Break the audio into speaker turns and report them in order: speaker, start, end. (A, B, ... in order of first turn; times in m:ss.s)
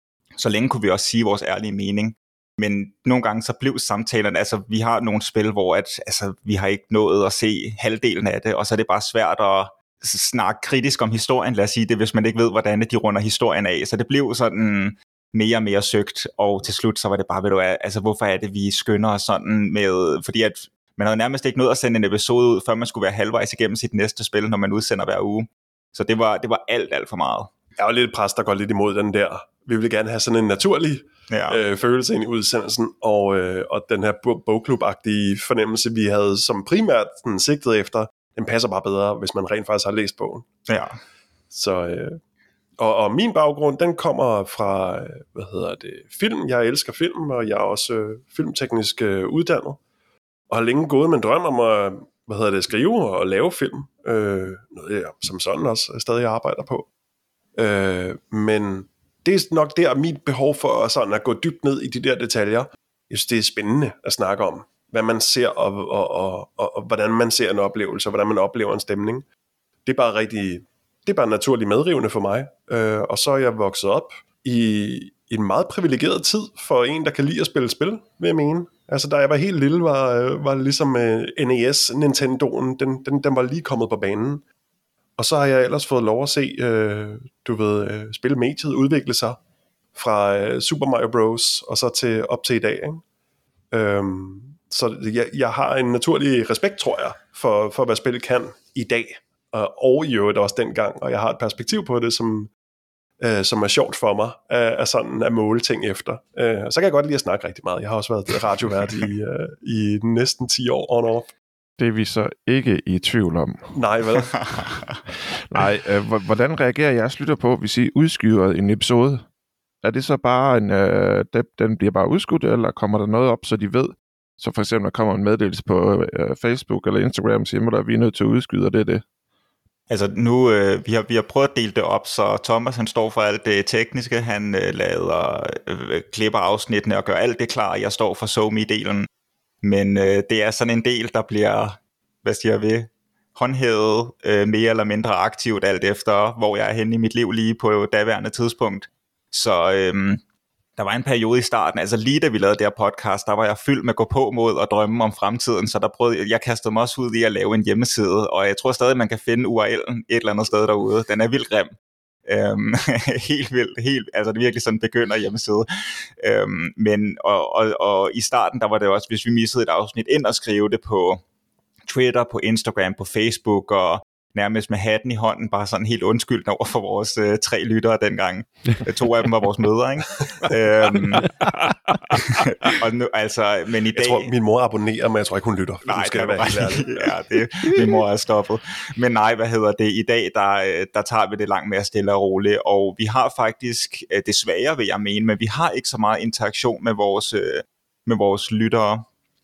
0:00.4-0:27.5 A
0:27.8-0:40.5 B
0:31.3-0:31.6 A
0:40.7-0:41.0 A
0:41.5-0:42.2 B
0:42.8-0:49.8 B
0:50.5-0:56.9 B
0:57.6-1:09.2 B
1:09.9-1:24.4 B
1:25.2-1:29.4 B
1:29.9-1:33.0 B
1:33.7-1:42.5 B
1:43.2-1:51.3 B
1:51.8-1:53.7 C
1:53.7-1:54.4 B
1:54.4-1:55.0 A
1:55.1-1:59.3 C
1:59.8-2:09.0 C
2:09.9-2:19.1 A
2:19.6-2:30.2 A
2:30.8-2:41.8 A
2:42.3-2:51.2 A
2:51.9-3:01.5 A
3:02.1-3:04.3 A
3:04.0-3:07.2 B
3:05.8-3:19.0 A